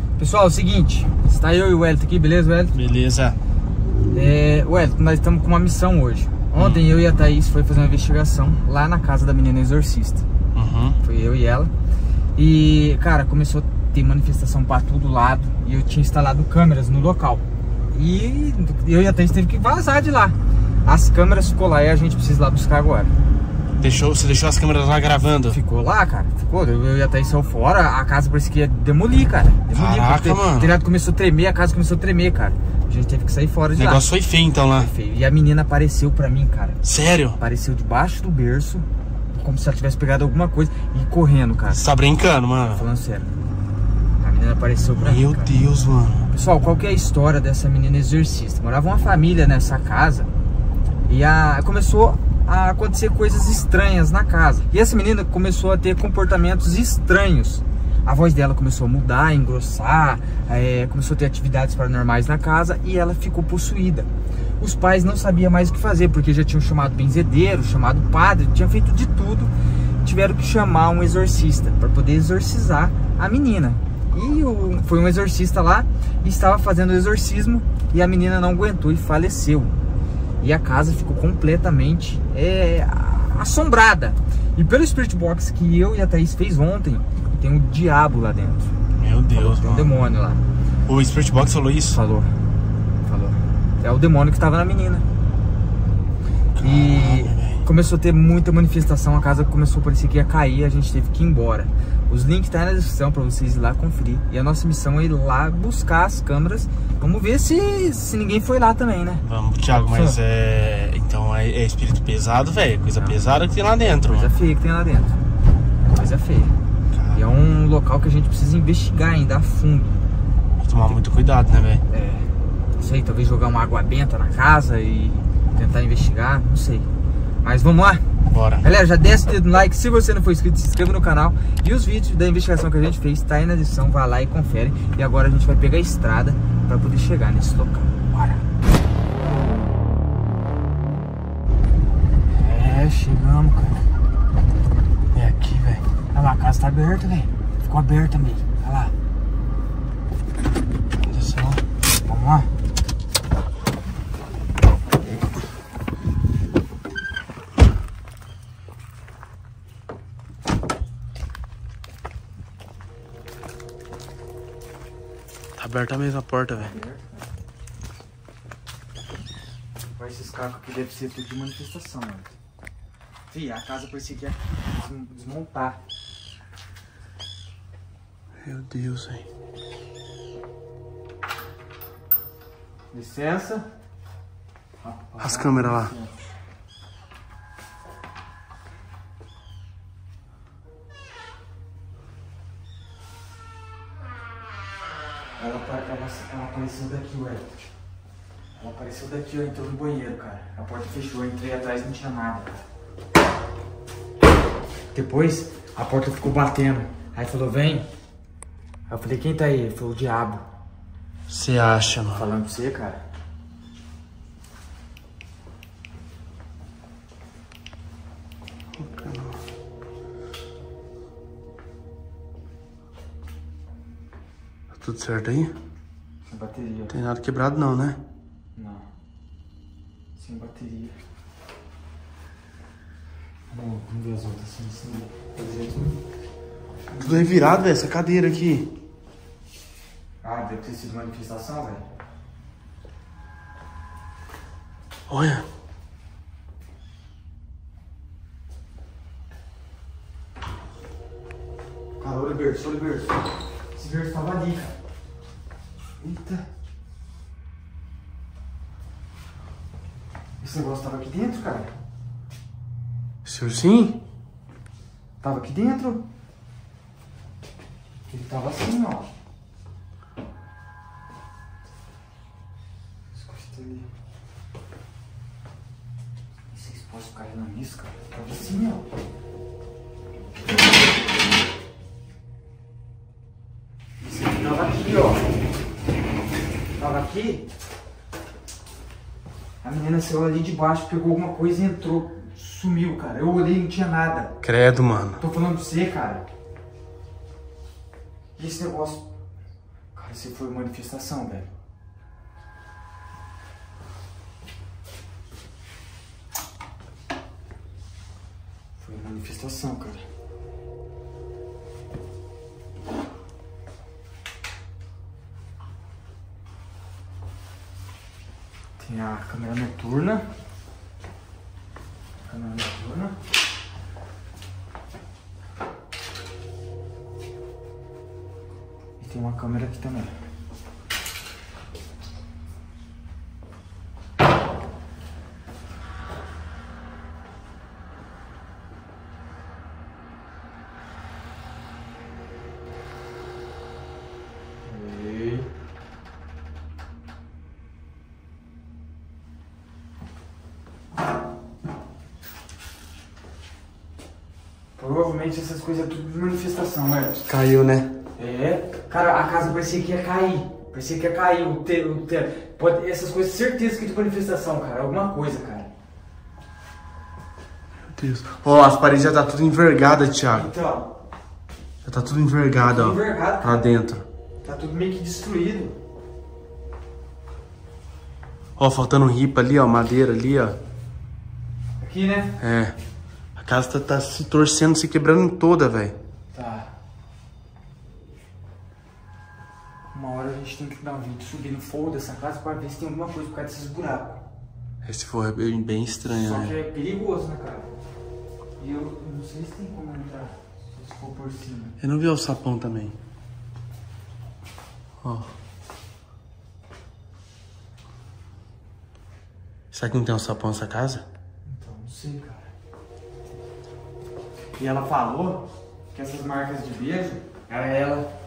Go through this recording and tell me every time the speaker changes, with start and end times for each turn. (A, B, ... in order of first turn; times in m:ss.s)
0:00.2-0:02.8 A
0:02.7-0:03.4 B
0:04.1-0:10.2 A
0:06.6-0:06.8 B
0:10.5-0:11.0 B
0:11.0-0:11.7 A
0:12.4-0:23.1 A
0:23.8-0:25.6 B
0:25.5-0:34.1 A
0:29.7-0:30.7 B
0:33.8-0:34.9 B
0:34.7-0:36.8 A
0:36.8-0:37.4 B
0:37.4-0:41.8 A
0:41.7-0:42.8 B
0:42.7-0:43.3 A
0:44.2-0:45.5 A
0:45.0-0:46.3 B
0:46.3-0:50.3 A
0:51.0-1:19.7 A
1:20.4-1:28.7 A
1:29.0-1:29.9 B
1:29.3-1:30.4 A
1:30.9-1:32.0 B
1:31.8-1:32.4 A
1:33.0-1:35.0 A
1:36.6-1:37.6 B
1:36.6-1:50.2 A
1:49.2-1:54.3 B
1:54.0-1:55.2 A
1:55.9-1:56.5 A
1:56.9-1:57.2 B
1:57.1-2:00.0 A
2:00.6-2:01.8 B
2:01.9-2:06.9 A
2:07.4-2:08.1 A
2:08.3-2:08.7 B
2:08.6-2:18.4 A
2:22.3-2:23.8 A
2:25.1-2:25.8 B
2:26.1-2:28.9 A
2:31.0-2:31.6 B
2:32.0-2:32.5 A
2:45.6-2:46.7 B
2:46.6-2:47.2 A
2:50.0-2:52.3 A
2:53.3-2:55.8 A
2:58.4-2:59.2 B
3:02.9-3:03.7 A
3:04.8-3:06.1 A
3:05.2-3:05.9 B
3:15.4-3:17.5 A
3:18.6-3:22.6 A
3:24.9-3:27.9 A
3:28.9-3:30.4 A
3:31.3-3:32.2 B
3:32.1-3:33.0 A
3:38.8-3:39.4 B
3:44.7-3:45.5 B
3:46.2-3:47.0 A
3:46.9-3:48.0 B
3:48.5-3:48.9 A
3:50.2-3:51.0 A
3:53.5-3:56.0 A
3:56.9-3:57.3 A
3:57.0-3:58.8 B
4:00.2-4:01.8 A
4:05.1-4:05.4 B
4:12.0-4:14.7 A
4:16.0-4:16.4 A
4:20.4-4:21.7 A
4:23.2-4:24.0 B
4:25.2-4:26.0 A
4:28.1-4:29.1 A
4:33.1-4:33.9 A
4:36.5-4:38.8 A
4:44.0-4:45.2 A
4:46.8-4:47.5 A
4:49.6-4:54.4 A
4:54.4-4:55.2 B
4:55.2-4:56.2 A
4:58.4-4:59.0 A
4:59.9-5:01.5 A
5:08.8-5:10.0 A
5:18.8-5:20.3 A
5:22.2-5:23.2 A
5:29.0-5:30.1 A
5:44.6-5:45.5 A
5:54.8-5:57.2 A
5:57.3-5:57.9 B
5:58.2-6:05.7 A
6:07.9-6:10.5 B
6:10.3-6:10.9 A
6:11.8-6:14.0 B
6:12.6-6:13.7 A
6:14.4-6:15.8 A
6:18.6-6:20.6 B
6:21.8-6:22.4 A
6:22.4-6:22.8 B
6:23.4-6:26.0 B
6:26.3-6:26.7 A
6:29.9-6:34.2 A
6:34.8-6:36.5 B
6:36.1-6:37.7 A
6:38.6-6:41.8 A
6:41.8-6:43.0 B
6:45.0-6:45.3 B
6:49.7-6:51.0 B
6:51.4-6:52.5 A
6:54.6-6:58.1 A